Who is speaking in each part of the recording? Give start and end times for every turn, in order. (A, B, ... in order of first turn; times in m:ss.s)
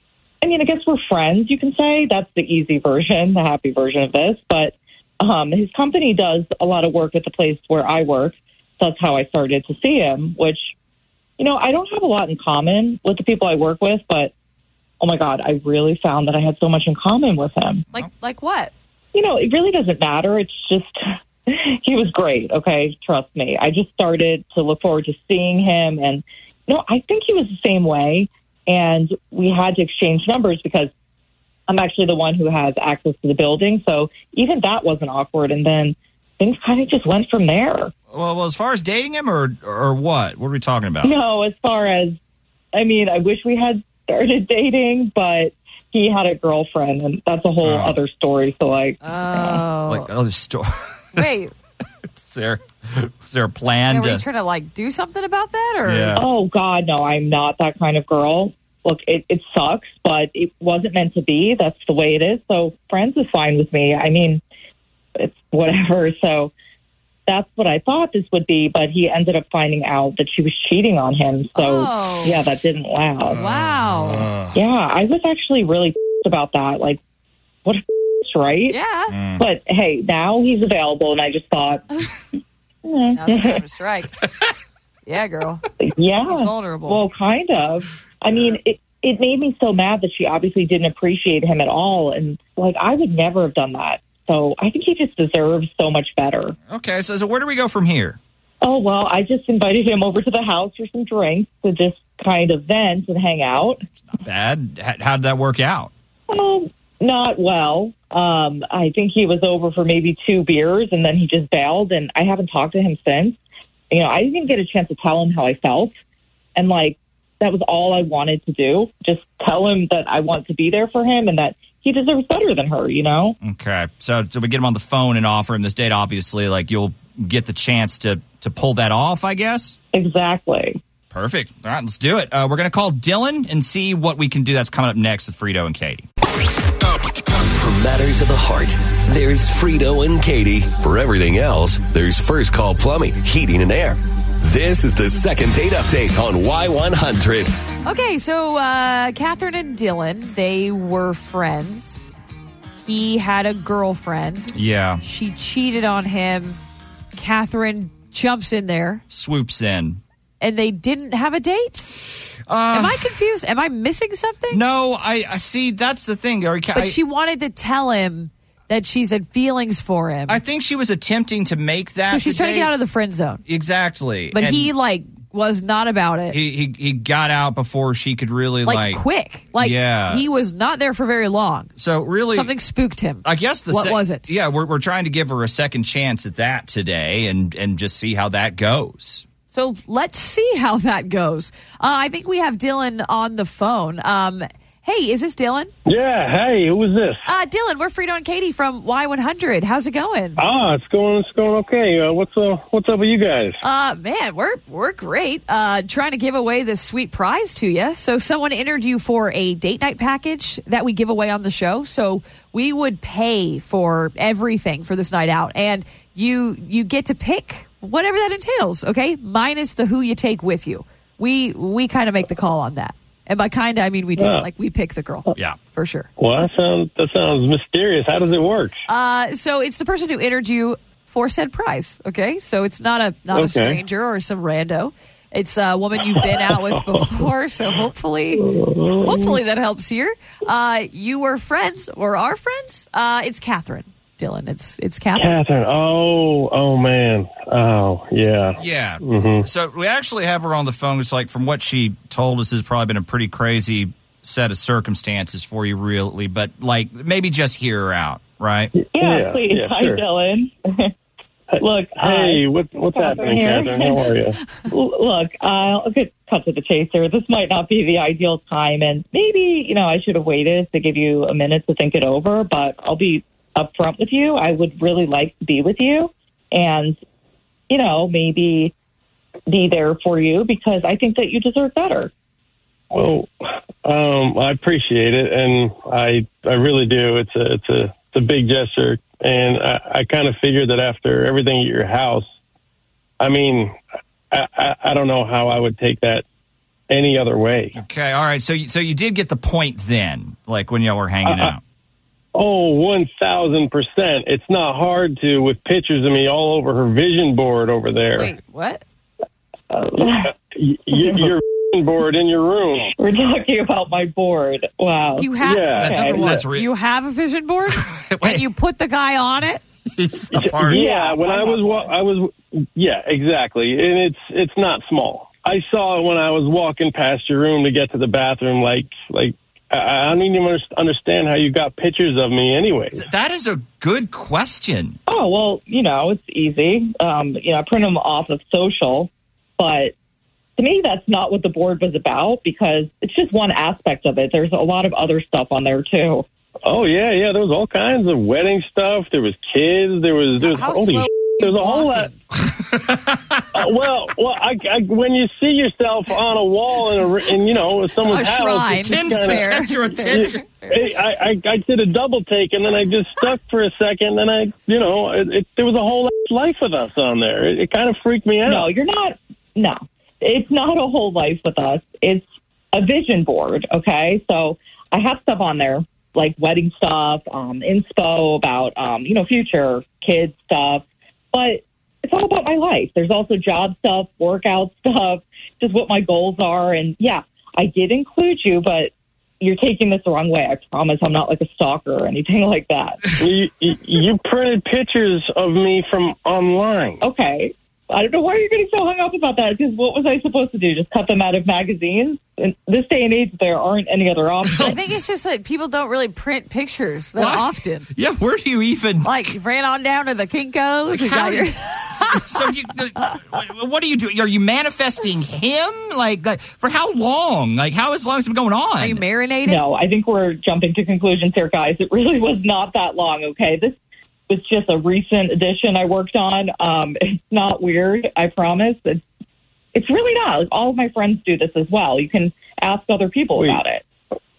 0:00.4-0:10.7 A
0:11.4-0:14.3 A
0:15.0-0:17.8 A
0:17.9-0:18.7 B
0:19.1-0:30.9 A
0:31.7-0:37.9 A
0:38.1-0:41.1 C
0:41.0-0:42.2 A
0:42.7-0:49.7 A
0:47.6-0:48.0 C
0:49.0-0:50.1 B
0:49.9-0:51.3 C
0:51.2-0:51.5 B
0:52.1-0:54.2 C
0:53.9-0:56.2 B
0:55.8-0:56.2 C
0:56.2-1:04.4 A
1:05.2-1:06.5 A
1:07.3-1:13.4 A
1:11.6-1:12.4 B
1:13.3-1:14.3 B
1:13.4-1:14.6 C
1:14.5-1:17.0 A
1:17.6-1:18.8 A
1:18.7-1:19.2 B
1:19.1-1:19.4 C
1:19.4-1:21.8 A
1:22.8-1:23.6 A
1:23.2-1:24.2 B
1:25.1-1:25.6 B
1:25.8-1:36.6 A
1:26.3-1:27.0 B
1:36.7-1:38.2 C
1:38.6-1:43.8 A
1:44.1-1:45.9 C
1:46.3-1:53.4 A
1:53.9-1:55.9 A
1:56.6-2:03.4 A
2:03.4-2:09.8 C
2:09.9-2:10.8 A
2:11.1-2:16.1 C
2:17.4-2:27.5 D
2:27.8-2:32.0 B
2:32.8-2:36.6 B
2:34.5-2:35.0 C
2:37.2-2:39.0 B
2:39.1-2:40.0 C
2:40.4-2:41.9 B
2:42.5-2:43.0 C
2:42.7-2:44.6 B
2:44.5-2:47.0 C
2:46.7-2:50.4 B
2:50.3-2:52.8 C
2:52.1-2:53.4 B
2:53.5-2:54.7 C
2:54.3-2:56.4 B
2:56.3-2:59.0 C
2:58.6-3:01.7 B
2:59.6-3:00.2 C
3:01.8-3:02.5 C
3:02.3-3:04.3 B
3:03.2-3:09.2 C
3:09.5-3:15.7 B
3:15.9-3:17.3 E
3:17.3-3:20.4 B
3:20.4-3:23.6 E
3:23.6-3:46.1 B
3:44.2-3:44.5 E
3:46.2-3:48.8 E
3:48.9-3:58.5 B
3:53.3-3:53.8 E
3:56.8-3:57.2 E
3:58.4-3:59.4 E
3:59.0-4:05.3 B
4:05.2-4:09.4 E
4:08.6-4:18.7 C
4:18.8-4:20.0 E
4:18.9-4:20.9 A
4:21.5-4:24.4 E
4:21.6-4:24.1 A
4:24.7-4:37.0 A
4:37.7-4:38.7 A
4:39.5-4:42.1 A
4:42.9-4:52.3 E
4:53.2-4:53.8 E
4:54.3-4:56.2 E
4:56.9-4:57.8 E
4:57.8-5:01.6 C
5:01.3-5:01.6 E
5:02.4-5:08.4 E
5:08.2-5:08.8 B
5:09.7-5:10.3 A
5:10.0-5:12.9 E
5:10.9-5:11.4 A
5:13.0-5:16.2 A
5:15.2-5:19.6 B
5:15.4-5:16.3 E
5:15.8-5:16.7 C
5:17.8-5:18.5 C
5:20.0-5:20.8 C
5:20.3-5:33.0 E
5:20.7-5:21.9 A
5:32.9-5:35.0 C
5:35.1-5:39.9 A
5:40.6-5:46.3 A
5:46.6-5:52.1 E
5:50.4-5:52.2 B
5:52.6-5:53.4 C
5:53.5-5:59.5 E
5:58.0-6:01.0 B
5:58.9-6:00.5 C
6:00.1-6:08.7 E
6:08.4-6:33.1 A
6:33.2-6:37.0 E
6:37.0-6:44.8 A
6:44.5-6:44.9 C
6:44.6-6:47.9 B
6:47.2-6:49.3 C
6:49.0-6:52.3 B
6:50.9-6:59.0 C
6:58.8-6:59.6 B
6:59.4-7:03.8 A
7:04.3-7:09.0 A
7:09.7-7:13.8 A